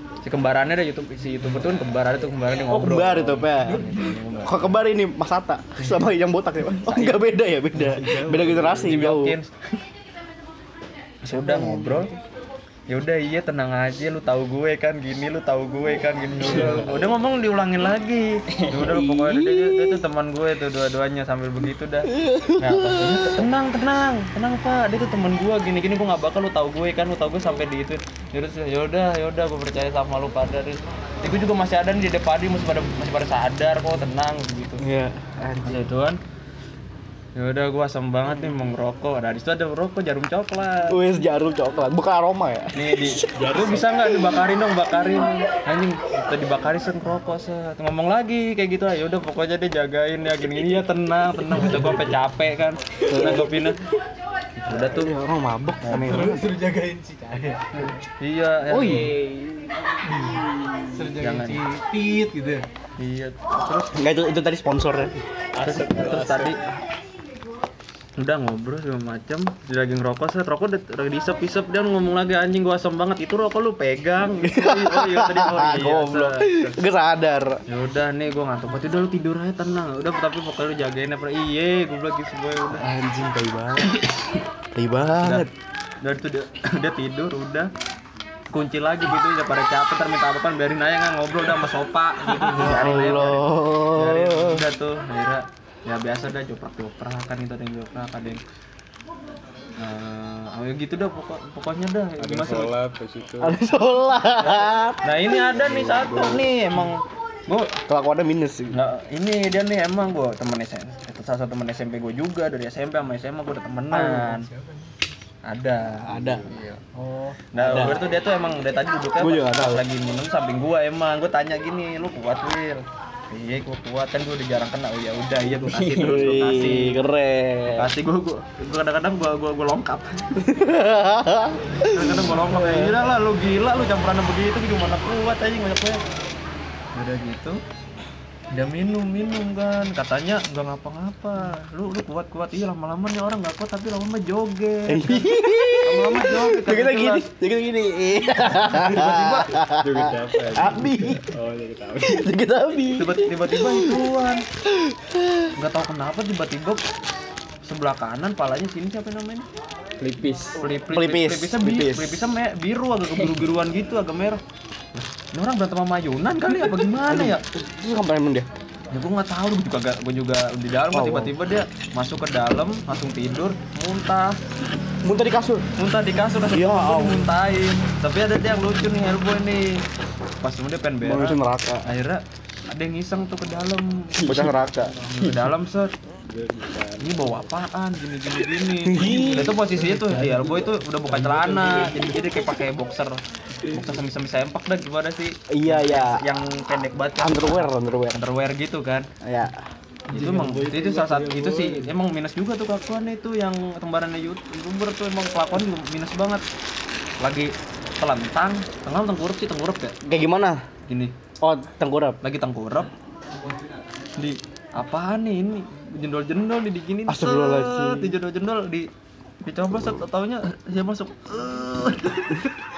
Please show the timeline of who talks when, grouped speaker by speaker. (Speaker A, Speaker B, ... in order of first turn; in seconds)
Speaker A: 0.2-4.7, 6.8-7.2, 8.6-9.5, 11.2-12.1, 12.9-34.8, 35.6-36.2, 37.3-41.0, 42.7-53.8, 54.6-55.1, 57.7-59.1, 61.2-61.6, 63.0-63.9, 65.5-66.6, 68.2-76.8, 77.7-82.9, 85.2-85.5, 86.0-87.7, 88.5-98.4, 99.8-102.7, 104.4-107.8, 108.7-114.5, 115.4-116.8, 117.5-127.0, 127.7-130.3, 131.8-136.0, 136.9-137.6, 138.5-147.2, 148.6-149.5, 152.9-154.4, 155.5-156.8, 157.6-159.4, 160.6-164.4, 165.3-167.4, 168.9-174.4, 175.8-179.8, 180.4-184.5, 185.1-185.9, 187.0-199.1, 200.1-206.4, 207.2-209.9, 210.9-211.1, 212.2-212.9, 214.2-218.9, 219.4-222.5
Speaker B: 2.7-9.3, 11.3-12.1, 18.8-20.0, 22.1-23.4, 34.8-35.8, 40.9-44.5, 53.1-53.7, 54.7-56.4, 58.7-59.4, 63.9-65.2, 74.4-77.6, 82.7-85.5, 92.4-94.6, 103.4-105.5, 107.9-108.8, 113.9-114.8, 116.0-116.5, 117.5-118.1, 119.2-119.8, 125.7-127.9, 130.3-133.0, 144.9-151.2, 152.0-154.1, 154.7-155.5, 160.9-162.2, 167.1-168.5, 170.9-171.3, 175.0-175.7, 176.5-177.3, 181.0-181.9, 184.2-185.0, 188.8-189.6, 195.5-196.2, 197.2-198.2, 199.2-199.7, 210.0-210.6, 211.4-212.2, 217.1-218.2
Speaker C: 7.8-8.9, 16.4-16.9, 18.5-19.0, 43.4-43.8, 65.5-66.6, 102.2-103.6, 105.6-106.5, 116.2-116.4, 125.7-126.3, 149.7-152.3, 160.0-160.6, 184.2-184.5, 185.1-185.5, 186.2-187.5, 188.9-189.3, 189.8-192.1, 193.5-194.0, 200.1-201.9
Speaker D: 55.9-57.9, 60.0-62.6, 189.1-190.1, 200.1-201.6